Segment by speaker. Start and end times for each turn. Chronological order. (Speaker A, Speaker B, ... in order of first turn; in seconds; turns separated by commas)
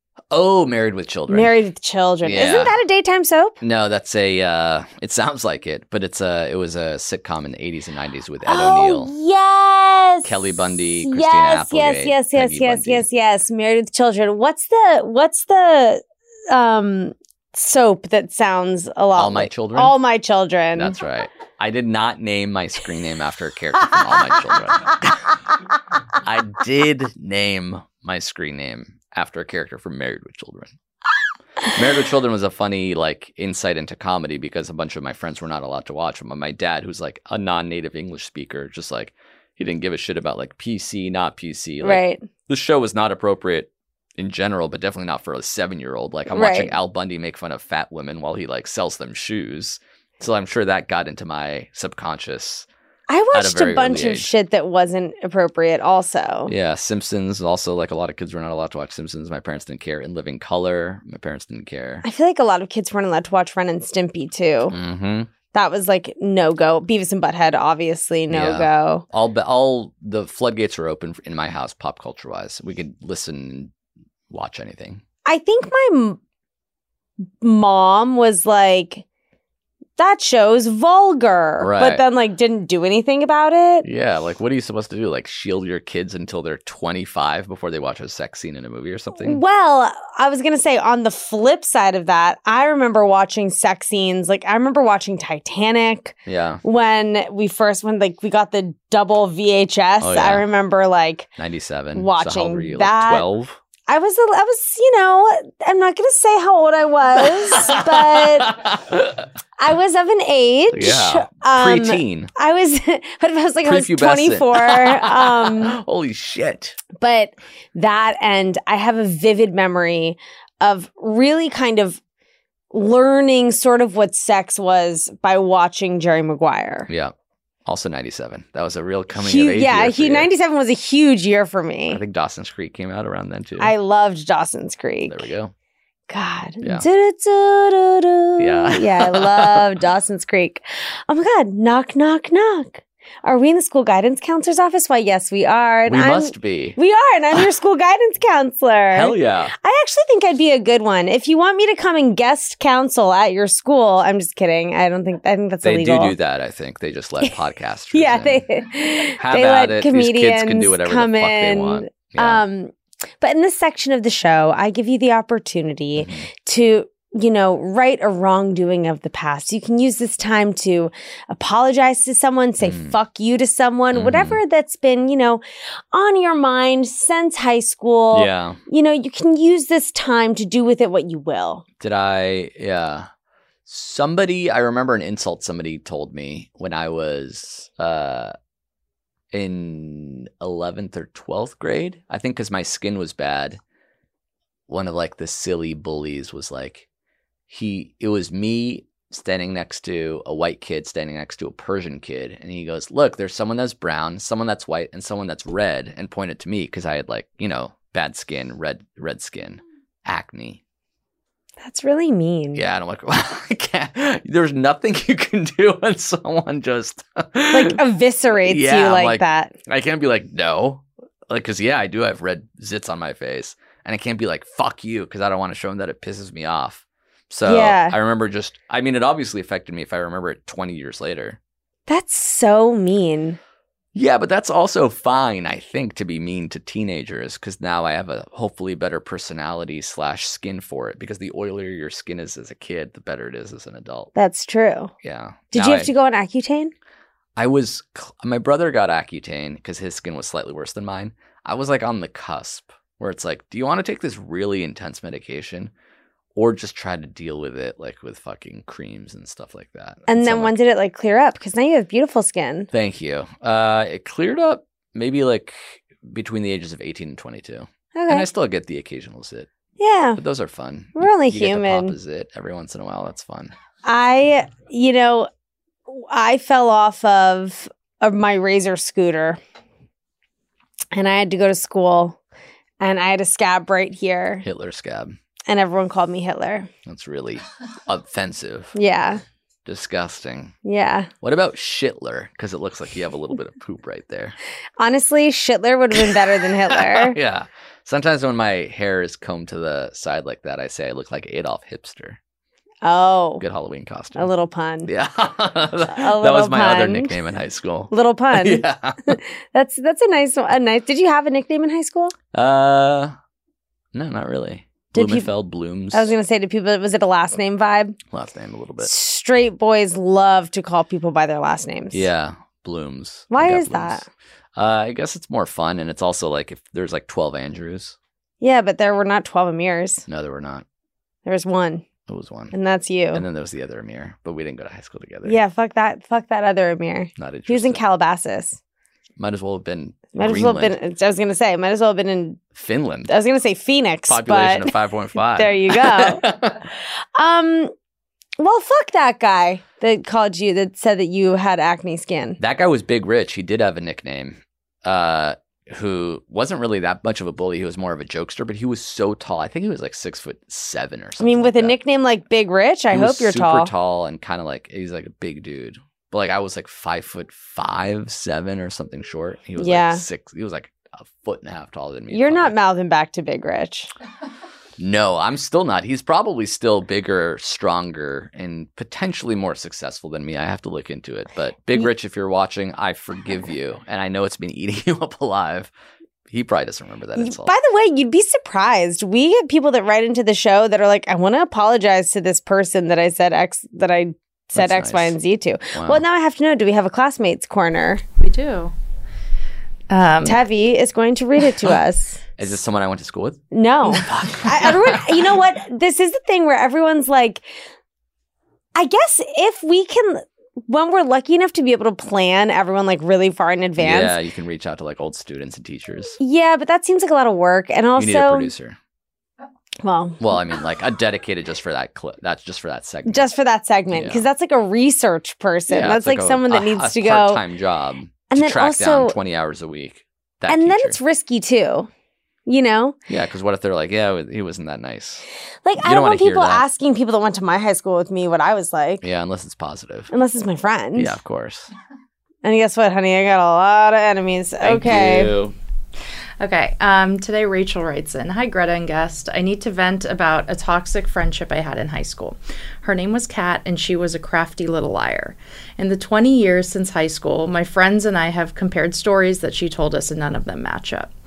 Speaker A: 0.3-1.6, Speaker B: 1.3-3.6, Speaker A: 2.2-2.8, Speaker A: 3.6-9.1, Speaker B: 8.4-21.0, Speaker A: 10.2-13.1, Speaker A: 19.1-20.0, Speaker A: 20.8-25.2, Speaker A: 26.2-30.8, Speaker A: 31.6-52.7, Speaker B: 41.8-42.3, Speaker B: 46.3-46.7, Speaker B: 53.1-56.5, Speaker A: 53.3-54.3, Speaker A: 56.5-62.0, Speaker B: 62.0-64.8, Speaker A: 64.7-65.3, Speaker B: 65.5-69.0, Speaker A: 68.3-73.7, Speaker A: 74.3-75.0, Speaker B: 75.3-76.2, Speaker B: 77.4-79.0, Speaker B: 80.0-83.9, Speaker A: 81.6-82.0, Speaker A: 83.8-89.4, Speaker B: 89.2-101.3, Speaker A: 96.3-96.6, Speaker A: 100.0-100.5, Speaker A: 101.4-103.6, Speaker B: 101.9-103.3, Speaker B: 103.9-108.6, Speaker A: 107.2-109.3, Speaker B: 109.6-115.8, Speaker A: 110.7-112.3, Speaker A: 113.6-116.8, Speaker B: 117.0-122.0, Speaker B: 122.7-126.9, Speaker A: 126.9-127.1, Speaker A: 127.7-130.3, Speaker B: 129.2-132.0, Speaker A: 131.9-133.7, Speaker B: 133.6-135.3, Speaker A: 135.1-135.5, Speaker B: 136.1-156.2, Speaker A: 136.6-136.9, Speaker A: 138.4-139.8, Speaker A: 145.9-146.8, Speaker A: 148.9-149.5, Speaker A: 155.6-158.5, Speaker B: 157.9-175.4, Speaker A: 159.1-162.4, Speaker A: 165.9-166.3, Speaker A: 172.6-172.9, Speaker A: 173.9-174.4, Speaker B: 175.9-181.6, Speaker A: 178.1-178.6, Speaker A: 181.8-183.1, Speaker A: 183.7-188.3, Speaker A: 189.3-193.6, Speaker A: 194.7-196.9, Speaker A: 197.5-210.6, Speaker B: 211.6-212.6, Speaker A: 212.5-217.8, Speaker B: 217.5-219.6, Speaker A: 218.4-231.4, Speaker B: 227.4-228.0, Speaker B: 231.9-233.4, Speaker A: 233.9-244.1, Speaker B: 244.2-244.9, Speaker A: 245.0-245.9, Speaker B: 245.5-246.7, Speaker A: 247.4-255.7, Speaker A: 256.4-260.5, Speaker B: 260.1-262.7, Speaker A: 262.7-269.5, Speaker B: 267.9-268.3, Speaker B: 269.8-270.2, Speaker A: 270.2-273.5, Speaker B: 271.0-272.0, Speaker B: 273.8-275.3, Speaker B: 275.9-279.4, Speaker B: 280.9-282.2, Speaker B: 282.8-284.4, Speaker A: 284.4-285.2, Speaker B: 285.5-286.7, Speaker A: 286.9-288.8, Speaker B: 288.7-289.2, Speaker A: 289.7-290.6, Speaker B: 290.6-291.1, Speaker A: 291.2-294.4, Speaker B: 294.8-297.2, Speaker A: 296.7-302.2, Speaker B: 302.8-303.4, Speaker A: 303.4-304.3, Speaker B: 304.1-304.9, Speaker A: 304.9-309.2, Speaker B: 305.9-307.1, Speaker B: 307.9-312.1, Speaker A: 312.3-313.1, Speaker A: 313.9-316.1, Speaker B: 314.9-315.3, Speaker B: 315.9-318.0, Speaker A: 318.1-318.9, Speaker B: 318.8-322.1, Speaker A: 321.9-328.0, Speaker B: 323.3-324.1, Speaker B: 328.4-330.1, Speaker A: 330.1-330.6, Speaker B: 331.2-331.9, Speaker A: 332.1-332.5, Speaker B: 332.5-333.2, Speaker A: 333.1-335.4, Speaker B: 335.2-338.6, Speaker A: 337.2-337.8, Speaker A: 339.2-340.8, Speaker B: 340.1-342.4, Speaker A: 342.6-343.1, Speaker B: 343.1-344.7, Speaker A: 344.1-346.6, Speaker B: 345.4-346.3, Speaker B: 347.2-347.7, Speaker B: 348.4-352.4, Speaker A: 352.4-361.8, Speaker B: 361.2-363.7, Speaker A: 362.9-372.6, Speaker B: 369.6-370.0, Speaker B: 372.1-373.9, Speaker A: 374.8-385.7, Speaker A: 386.3-387.5, Speaker B: 387.2-398.0, Speaker A: 394.5-395.2, Speaker A: 395.7-396.0, Speaker C: 398.2-398.7, Speaker C: 399.9-400.4, Speaker B: 400.2-402.2, Speaker A: 402.4-405.3, Speaker B: 403.5-407.4, Speaker B: 408.8-414.2, Speaker A: 413.8-416.2, Speaker B: 416.2-418.5, Speaker A: 418.0-418.8, Speaker B: 419.8-420.4, Speaker A: 420.2-423.3, Speaker B: 423.1-427.4, Speaker A: 423.9-424.3, Speaker A: 425.7-431.0, Speaker B: 428.3-429.2, Speaker B: 430.5-431.9, Speaker B: 432.5-433.0, Speaker A: 433.1-435.2, Speaker B: 435.6-439.0, Speaker A: 435.8-436.6, Speaker A: 439.0-440.1, Speaker B: 440.1-441.2, Speaker A: 440.9-441.7, Speaker B: 442.4-445.3, Speaker A: 444.6-445.6, Speaker C: 446.4-461.1